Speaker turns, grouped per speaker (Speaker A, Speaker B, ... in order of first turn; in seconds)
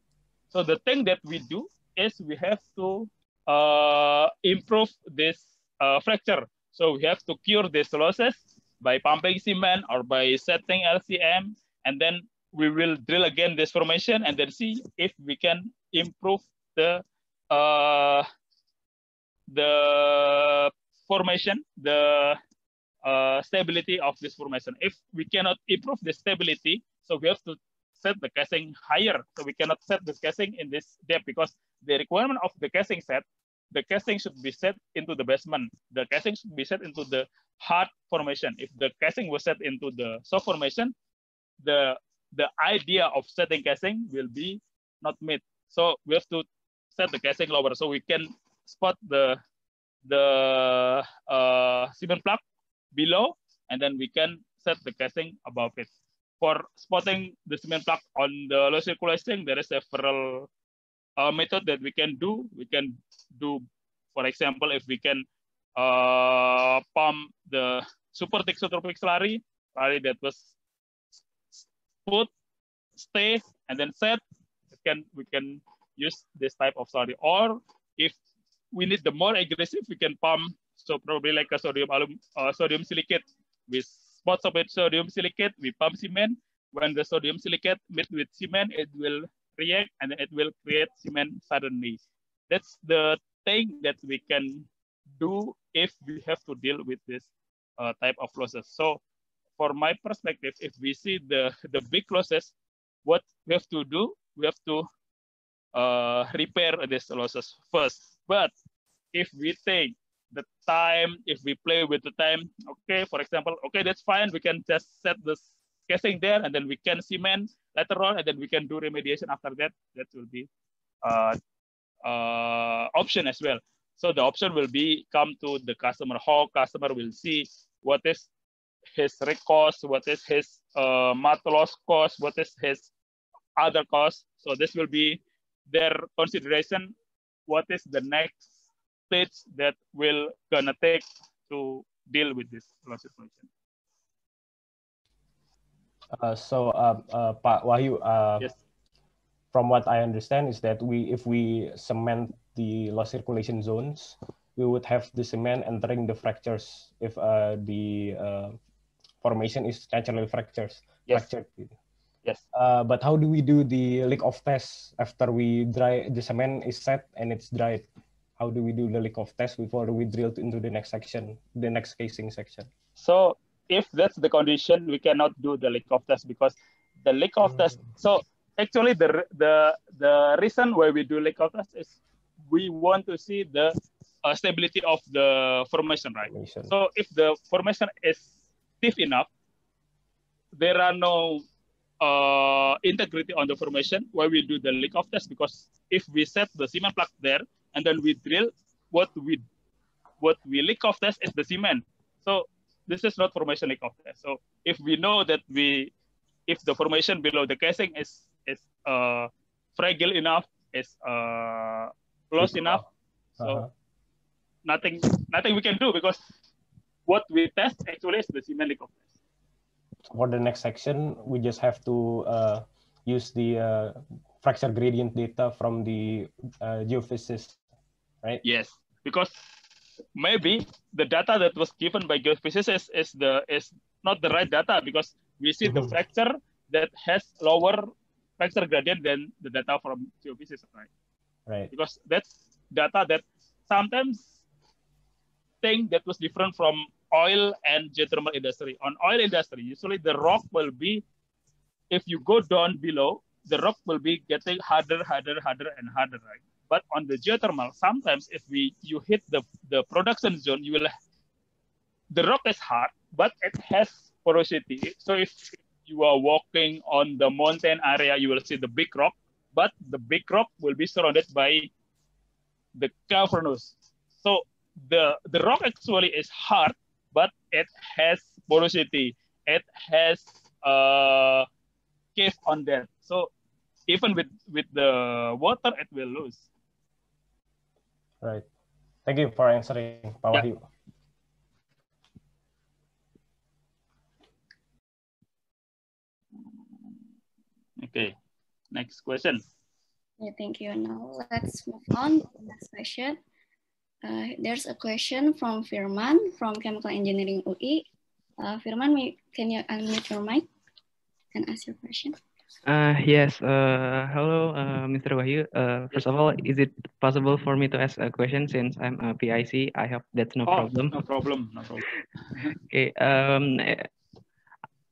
Speaker A: 0.5-18.3, 19.5-22.4, 23.0-40.9, 41.6-49.4, 50.0-52.4, 52.9-60.5, 61.2-65.2, 65.8-70.5, 71.5-72.3, 73.0-74.2, 74.7-78.2, 78.7-99.0, 99.6-102.5, 103.0-104.8, 105.7-108.5, 109.1-120.5, 121.0-121.4, 122.0-128.3, 128.9-132.9, 133.6-136.9, 137.5-138.5, 139.1-143.5, 173.0-189.3, 190.5-191.4, 192.0-199.4, 200.2-205.9, 206.5-212.8, 214.6-216.2, 217.1-219.1, 228.4-229.4, 230.2-240.9, 241.7-244.3, 245.6-251.0, 251.9-260.9, 262.1-271.7, 272.7-281.5, 282.1-283.3, 283.9-286.4, 297.8-298.1, 298.7-299.4, 320.5-321.9
Speaker B: 146.1-148.5, 149.5-158.6, 159.2-161.7, 162.5-167.8, 168.4-172.7, 186.3-186.7, 212.4-212.8, 213.4-213.7, 220.1-227.6, 241.5-241.7, 289.1-290.6
Speaker C: 300.2-303.2, 304.0-307.9, 308.4-310.4, 311.3-312.1
Speaker D: 312.6-320.9, 322.7-323.9